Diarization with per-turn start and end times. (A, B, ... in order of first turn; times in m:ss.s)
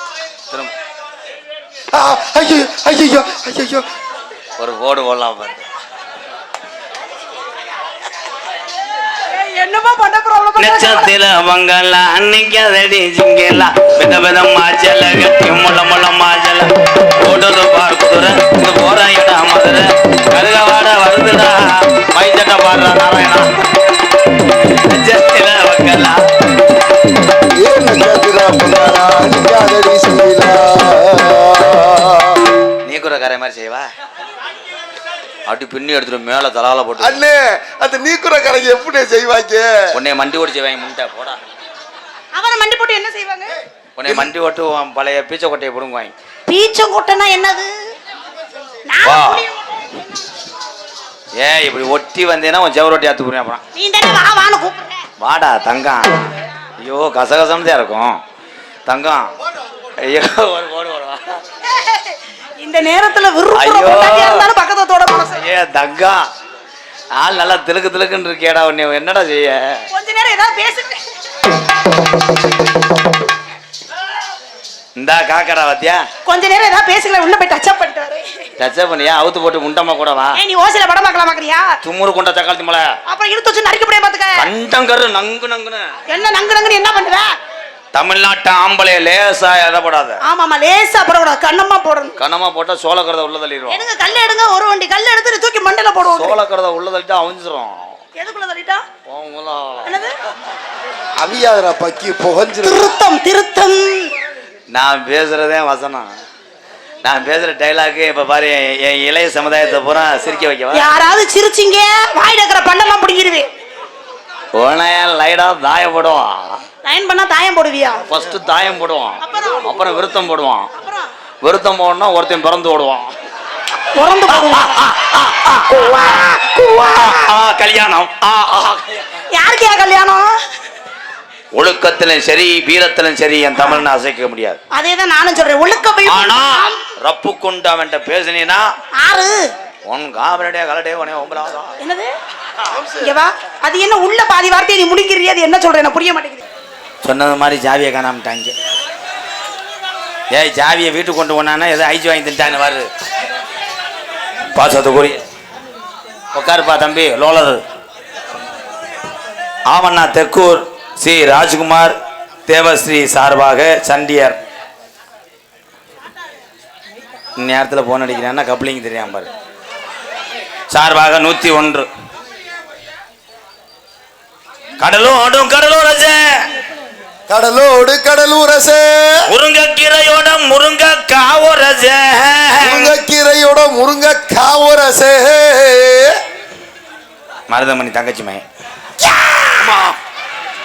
0:01.9-0:03.8 A
0:04.6-0:05.6 B
0:09.3-0:11.1 C
0:10.6-0:23.5 B
0:24.6-0:26.2 B
0:27.6-0:32.6 A
0:32.8-0:33.9 B
0:35.5-0:37.2 B
0:37.0-0:39.7 A
0:39.9-0:41.4 B
0:42.3-0:43.6 C
0:44.0-0:46.1 B
0:44.0-0:44.3 A
0:46.5-0:47.7 C
0:48.9-0:49.9 C
0:49.0-0:49.4 B
0:51.4-0:53.6 B
0:53.8-0:55.0 C
0:55.2-0:56.3 B
0:56.8-0:58.2 B
0:58.9-0:59.3 B
1:00.0-1:01.4 B
1:01.6-1:05.4 C
1:03.5-1:04.5 B
1:05.3-1:06.2 B
1:07.2-1:09.9 B
1:09.9-1:11.0 C
1:15.0-1:16.0 B
1:16.2-1:18.2 C
1:18.6-1:20.4 B
1:20.3-1:21.7 C
1:21.8-1:22.9 B
1:23.1-1:24.5 C
1:24.4-1:25.9 B
1:26.1-1:27.3 C
1:27.9-1:30.2 B
1:30.2-1:32.2 C
1:32.2-1:33.8 B
1:33.7-1:36.4 C
1:36.0-1:38.0 B
1:38.2-1:38.9 C
1:39.1-1:40.0 B
1:39.8-1:40.2 C
1:41.2-1:42.9 A
1:42.6-1:44.1 C
1:44.7-1:46.1 B
1:47.0-1:50.9 B
1:50.7-1:53.5 C
1:54.5-1:56.6 B
1:56.8-1:58.0 C
1:58.0-2:00.7 B
1:59.2-1:59.7 C
2:00.8-2:01.1 C
2:01.4-2:03.1 B
2:03.9-2:04.7 C
2:04.3-2:09.2 B
2:05.7-2:07.3 C
2:09.3-2:10.3 C
2:11.5-2:14.6 B
2:13.6-2:13.8 C
2:14.7-2:16.9 C
2:16.1-2:18.6 B
2:19.0-2:19.5 C
2:19.9-2:21.8 B
2:21.8-2:22.1 C
2:22.9-2:26.4 C
2:27.0-2:28.5 B
2:30.3-2:32.9 B
2:34.5-2:35.2 B
2:36.3-2:37.6 B
2:39.7-2:41.9 B
2:42.5-2:44.4 B
2:47.4-2:49.3 B
2:50.7-2:51.9 B
2:54.8-2:56.5 B
2:57.3-2:59.2 A
2:59.3-3:03.0 B
3:02.6-3:06.2 A
3:07.5-3:08.4 B
3:09.0-3:09.7 B
3:09.6-3:10.0 A